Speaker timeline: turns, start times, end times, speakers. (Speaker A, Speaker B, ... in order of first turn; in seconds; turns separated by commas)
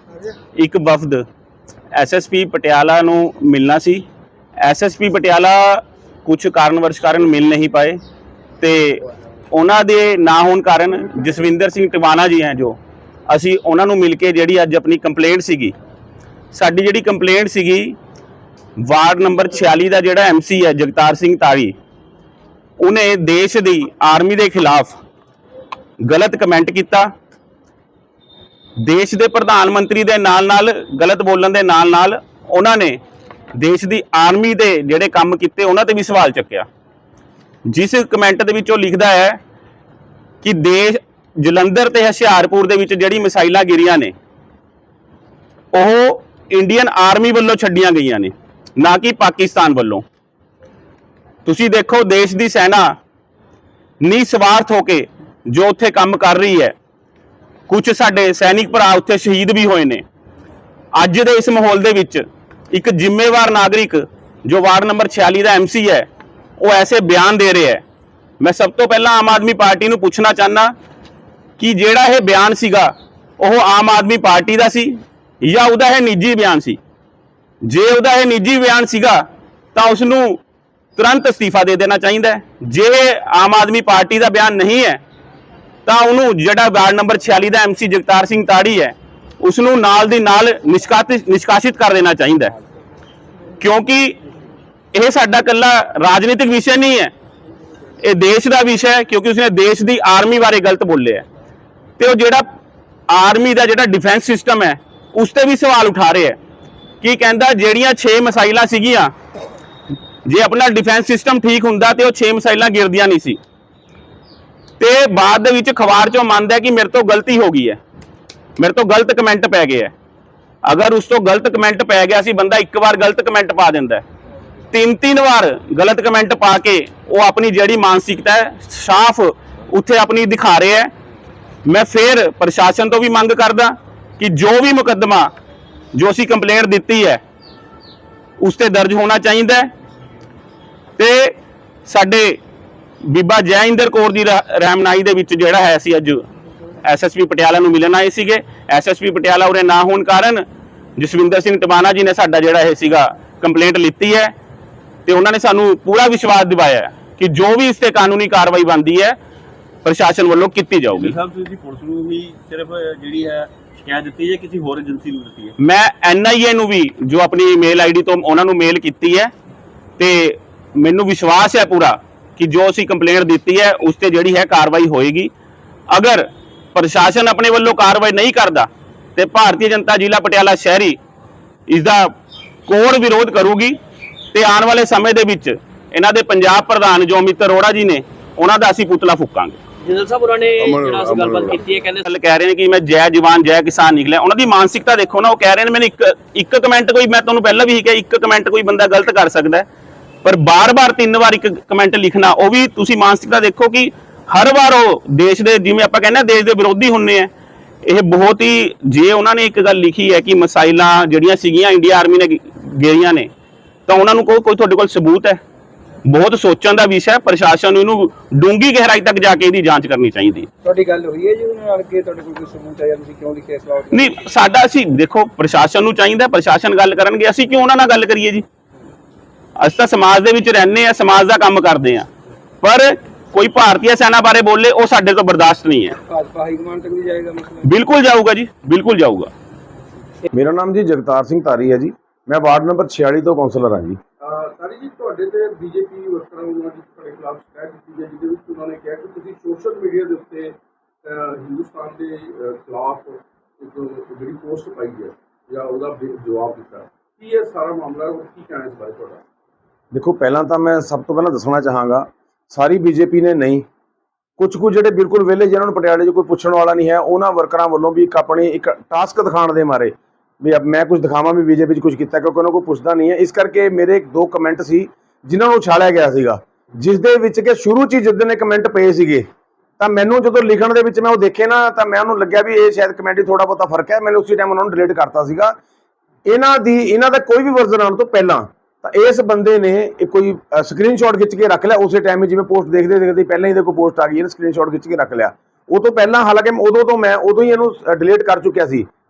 Speaker A: 0.6-1.2, Speaker A: 1.9-4.1, Speaker A: 4.6-8.0, Speaker A: 8.6-15.8, Speaker A: 16.5-18.0, Speaker A: 18.8-21.8, Speaker A: 22.8-25.0, Speaker A: 26.0-27.1, Speaker A: 28.8-33.0, Speaker A: 33.5-36.7, Speaker A: 37.7-39.4, Speaker A: 40.4-44.1, Speaker A: 45.7-50.0, Speaker A: 51.5-53.0, Speaker A: 54.0-56.8, Speaker A: 57.7-60.0, Speaker A: 60.9-67.8, Speaker A: 68.4-70.7, Speaker A: 71.6-76.8, Speaker A: 77.6-80.4, Speaker A: 81.0-85.0, Speaker A: 85.9-92.6, Speaker A: 93.6-94.2, Speaker A: 94.9-97.1, Speaker A: 98.0-101.3, Speaker A: 102.0-102.5, Speaker A: 103.1-106.4, Speaker A: 107.0-109.1, Speaker A: 110.2-113.4, Speaker A: 114.8-117.8, Speaker A: 118.6-119.9, Speaker A: 120.7-124.0, Speaker A: 124.7-130.9, Speaker A: 131.7-135.3, Speaker A: 135.9-137.2, Speaker A: 138.4-139.7, Speaker A: 141.0-141.4, Speaker A: 141.9-142.4, Speaker A: 143.0-146.2, Speaker A: 146.8-150.5, Speaker A: 151.0-154.3, Speaker A: 155.1-159.2, Speaker A: 159.8-161.2, Speaker B: 160.9-165.5, Speaker A: 165.6-169.3, Speaker A: 170.0-175.3, Speaker A: 175.9-181.0, Speaker A: 181.7-182.1, Speaker A: 182.7-183.8, Speaker A: 184.3-189.6, Speaker C: 189.8-192.1, Speaker B: 190.6-191.6, Speaker A: 192.1-199.7, Speaker A: 200.2-207.3, Speaker A: 207.8-213.3, Speaker A: 213.9-215.4, Speaker A: 216.1-220.5, Speaker D: 220.6-224.1, Speaker A: 223.9-228.4, Speaker A: 229.6-232.1, Speaker A: 232.6-236.0, Speaker D: 236.1-237.7, Speaker A: 237.6-239.3, Speaker E: 240.3-244.0, Speaker F: 244.2-259.2, Speaker E: 259.9-263.6, Speaker E: 264.4-279.3, Speaker E: 279.8-285.6, Speaker E: 286.3-298.9